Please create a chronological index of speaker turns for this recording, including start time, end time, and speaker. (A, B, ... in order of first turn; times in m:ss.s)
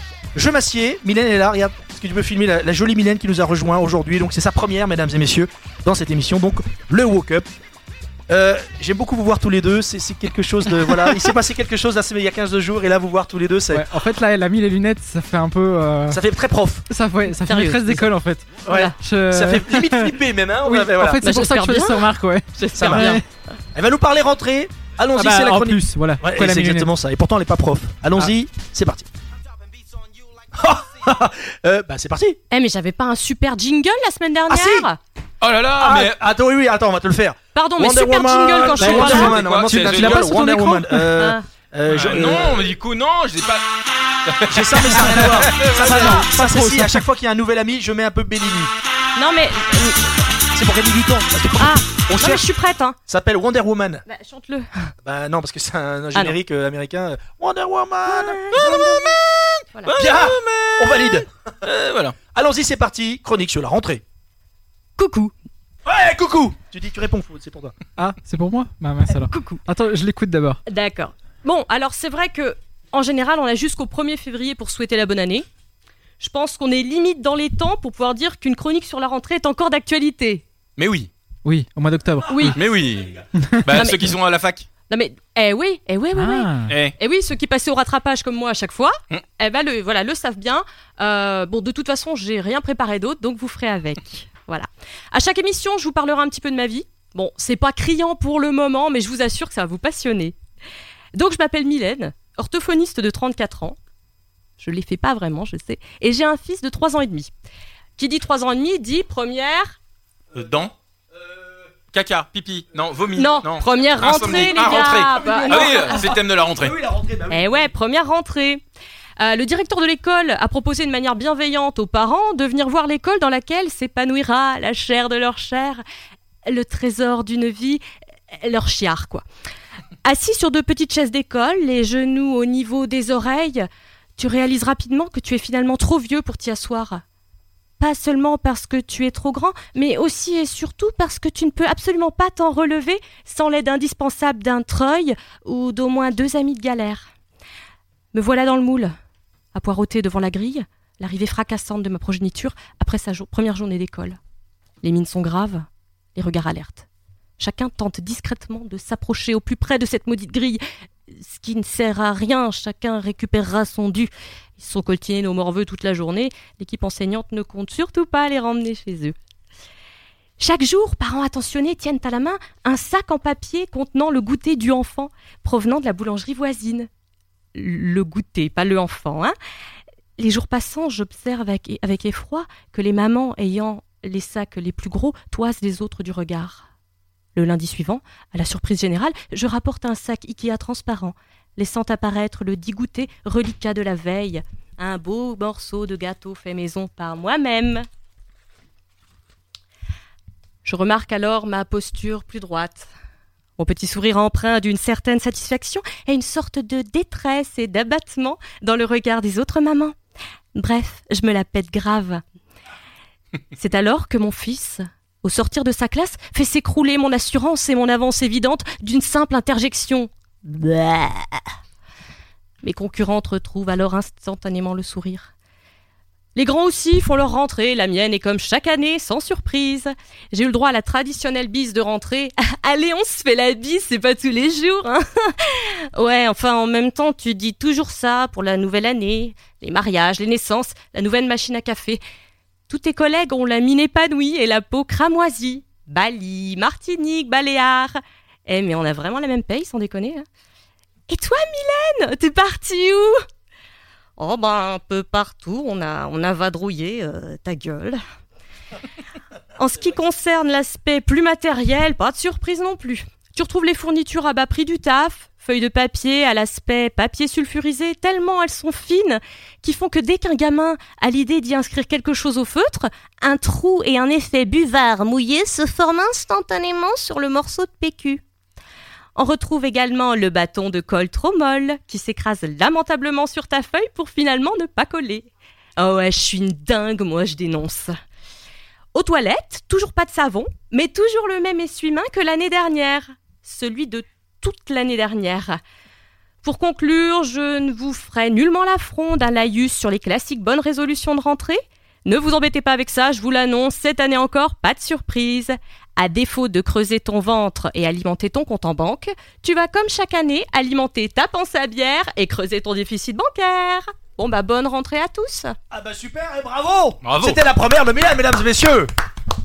0:00.3-0:07.5 A
0:08.3-0:13.8 A
0:13.7-0:16.2 B
0:16.1-0:16.8 A
0:16.9-0:23.2 B
0:17.2-0:18.1 C
0:18.6-0:21.2 A
0:18.7-0:18.9 C
0:21.2-0:23.2 C
0:22.7-0:23.2 A
0:23.7-0:29.1 A
0:25.2-0:26.9 B
0:30.5-0:32.4 A
0:32.5-0:35.0 C
0:34.5-0:34.9 A
0:35.4-0:36.2 D
0:35.8-0:42.7 A
0:37.5-0:39.4 C
0:38.8-0:40.3 D
0:38.8-0:41.0 B
0:41.2-0:41.4 C
0:41.9-0:43.7 D
0:44.2-0:46.3 D
0:44.5-0:48.7 A
0:45.0-0:47.0 B
0:49.2-0:50.2 C
0:50.5-0:52.4 A
0:51.6-0:53.0 C
0:53.1-0:54.0 A
0:54.1-0:54.9 C
0:55.0-0:59.1 A
0:58.0-0:59.2 C
0:58.6-1:02.2 D
0:59.9-1:01.3 A
1:02.3-1:04.0 A
1:05.0-1:05.3 C
1:05.8-1:07.7 A
1:08.0-1:10.6 B
1:09.1-1:09.6 C
1:10.6-1:15.4 C
1:16.2-1:20.4 C
1:20.8-1:21.1 D
1:21.4-1:22.6 B
1:22.3-1:22.6 C
1:22.5-1:24.7 D
1:23.4-1:23.6 B
1:23.7-1:24.2 C
1:24.9-1:40.4 C
1:26.2-1:26.7 B
1:26.7-1:26.9 D
1:41.1-1:43.8 C
1:44.6-1:47.3 C
1:48.0-1:49.8 C
1:50.3-1:50.7 D
1:51.1-1:51.7 A
1:51.9-1:56.8 D
1:53.2-1:56.1 C
1:54.0-1:57.7 A
1:57.3-1:58.6 C
1:59.2-2:05.8 C
2:06.4-2:07.8 C
2:08.4-2:09.2 C
2:10.0-2:17.0 C
2:17.8-2:27.0 C
2:28.1-2:28.9 C
2:29.5-2:34.2 C
2:34.8-2:36.8 C
2:37.4-2:49.1 C
2:50.4-2:56.9 C
2:57.5-2:59.4 C
3:00.2-3:06.6 C
3:07.3-3:17.8 C
3:20.6-3:22.9 C
3:23.6-3:29.9 C
3:30.5-3:32.2 C
3:33.6-3:41.4 C
3:42.6-3:45.3 C
3:46.3-4:02.0 C
4:02.7-4:10.2 C
4:11.1-4:13.2 C
4:14.2-4:18.0 C
4:19.6-4:38.2 C
4:39.2-4:47.9 C
4:48.9-4:55.6 C
4:56.4-5:15.6 C
5:15.7-5:18.9 A
5:17.0-5:17.4 D